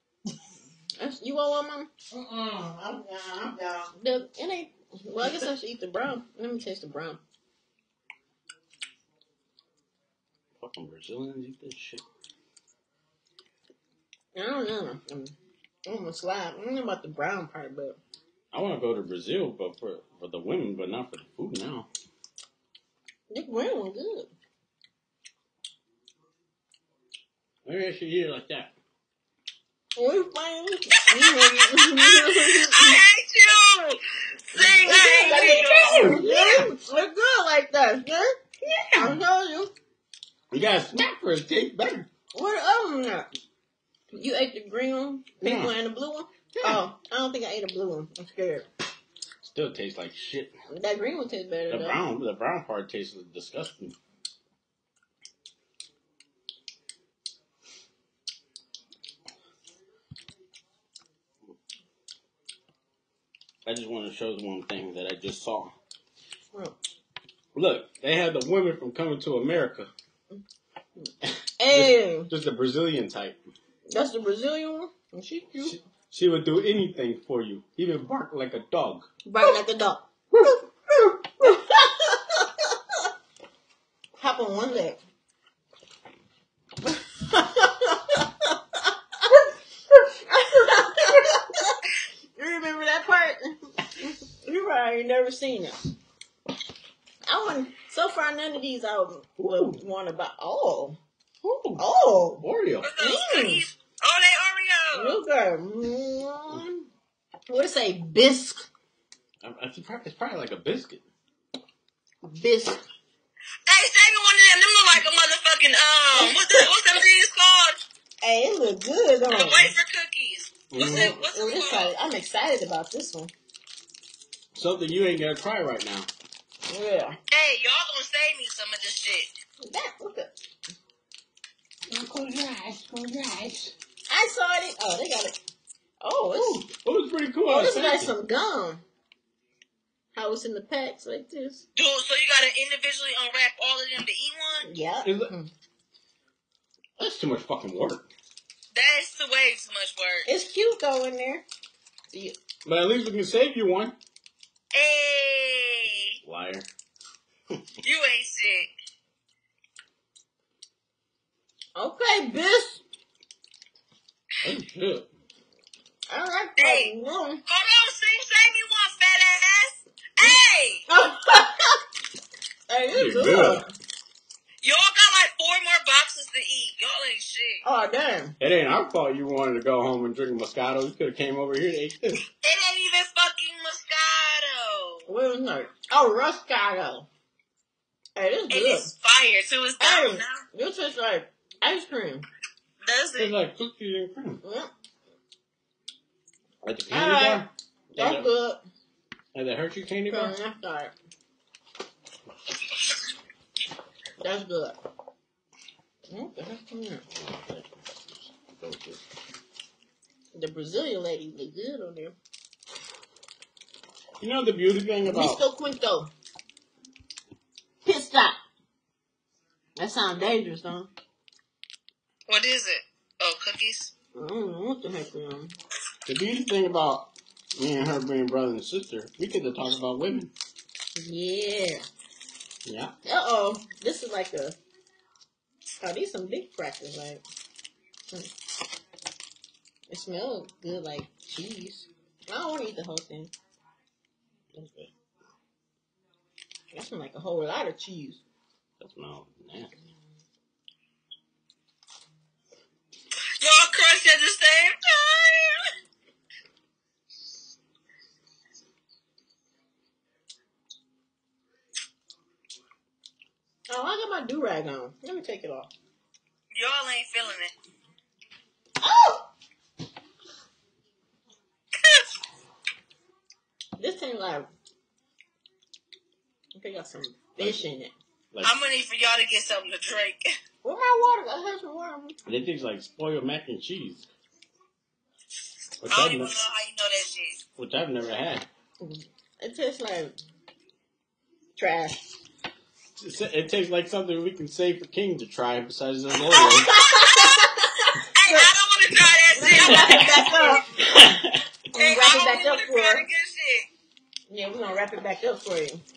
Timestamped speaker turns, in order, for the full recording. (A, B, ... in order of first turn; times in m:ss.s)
0:01.0-0:01.9 A
0:02.1-0:03.9 B
0:04.0-0:07.2 A
0:10.6-0:12.0 C
0:14.3-0:15.3 A
0:15.8-0:18.0 A
0:18.5-0:21.9 C
0:23.3-0:24.3 A
0:27.6-0:28.7 C
0:30.0-0:33.0 A
0:31.1-0:34.0 D
0:34.5-0:36.2 D
0:34.5-0:38.4 A
0:35.2-0:36.7 B
0:35.8-0:36.2 C
0:38.6-0:39.2 C
0:38.9-0:39.7 A
0:40.5-0:42.1 C
0:42.3-0:43.3 A
0:44.1-0:48.7 A
0:45.4-0:45.7 C
0:46.5-0:46.8 C
0:49.4-0:50.5 C
0:50.7-0:52.0 A
0:51.7-0:54.0 C
1:03.6-1:05.7 C
1:07.5-1:09.9 C
1:11.2-1:13.4 C
1:11.6-1:12.3 A
1:13.9-1:15.8 A
1:15.6-1:19.1 C
1:19.2-1:20.6 A
1:21.4-1:22.7 A
1:24.2-1:25.0 A
1:26.8-1:29.4 A
1:30.2-1:31.8 A
1:32.4-1:35.9 A
1:37.2-1:41.0 A
1:39.4-1:39.8 C
1:41.4-1:41.8 C
1:41.8-1:42.4 A
1:42.4-1:42.9 C
1:42.8-1:45.2 D
1:43.0-1:43.7 A
1:44.9-1:46.7 A
1:47.5-1:48.7 A
1:49.4-1:51.0 C
1:52.2-1:52.8 A
1:53.7-1:57.8 D
1:56.2-1:56.4 A
1:58.2-1:59.7 A
1:59.3-2:01.9 D
2:00.7-2:01.2 C
2:00.8-2:03.3 A
2:04.5-2:06.1 C
2:06.7-2:07.2 A
2:07.3-2:09.3 D
2:09.6-2:10.3 A
2:11.9-2:13.7 C
2:14.1-2:15.4 A
2:16.0-2:16.6 A
2:16.3-2:18.1 C
2:17.5-2:18.8 A
2:20.1-2:21.6 A
2:21.8-2:24.6 D
2:24.6-2:25.5 A
2:25.0-2:25.3 C
2:27.0-2:28.1 C
2:28.7-2:30.3 D
2:30.2-2:31.4 A
2:32.6-2:33.9 C
2:34.7-2:36.2 D
2:36.2-2:36.7 C
2:37.8-2:38.7 D
2:41.8-2:42.8 A
2:44.4-2:45.1 C
2:46.1-2:47.4 A
2:46.6-2:46.9 D
2:47.5-2:50.8 D
2:50.2-2:51.8 A
2:52.7-2:53.7 A
2:52.9-2:53.6 C
2:54.6-2:57.6 D
2:57.6-2:58.4 A
2:58.4-3:02.2 C
3:02.4-3:05.1 D
3:05.1-3:07.1 A
3:08.2-3:08.9 A
3:08.5-3:10.4 D
3:09.8-3:12.2 A
3:12.8-3:13.3 D
3:13.2-3:14.4 C
3:14.4-3:14.7 A
3:16.6-3:18.3 C
3:16.9-3:18.6 A
3:19.3-3:20.4 C
3:20.1-3:20.9 A
3:24.2-3:24.8 A
3:26.1-3:27.0 A
3:27.1-3:29.0 C
3:30.3-3:32.1 A
3:34.2-3:35.4 C
3:35.0-3:36.1 A
3:37.8-3:38.4 A
3:39.8-3:40.9 A
3:42.3-3:43.9 D
3:44.1-3:45.5 A
3:46.0-3:50.3 C
3:51.0-3:51.8 A
3:52.6-3:52.9 C
3:53.0-3:54.6 A
3:55.8-3:57.2 A
3:59.9-4:03.3 A
4:04.5-4:04.9 C
4:06.7-4:08.2 A
4:08.8-4:09.7 C
4:13.4-4:15.6 D
4:23.7-4:25.7 A
4:26.5-4:27.5 D
4:28.8-4:29.3 A
4:31.8-4:32.0 D
4:33.8-4:34.5 A
4:36.5-4:37.9 A
4:37.4-4:37.7 C
4:38.4-4:40.2 D
4:40.6-4:42.2 A
4:42.2-4:44.0 C
4:45.8-4:46.3 C
4:45.8-4:47.4 D
4:47.6-4:48.5 C
4:48.8-4:50.1 A
4:51.6-4:52.0 A
4:53.0-4:56.7 C
4:56.3-4:58.5 A
4:56.4-5:00.6 D
4:59.3-5:00.6 A
4:59.6-5:01.4 C
5:01.7-5:03.1 A
5:01.8-5:03.7 D
5:04.3-5:05.8 A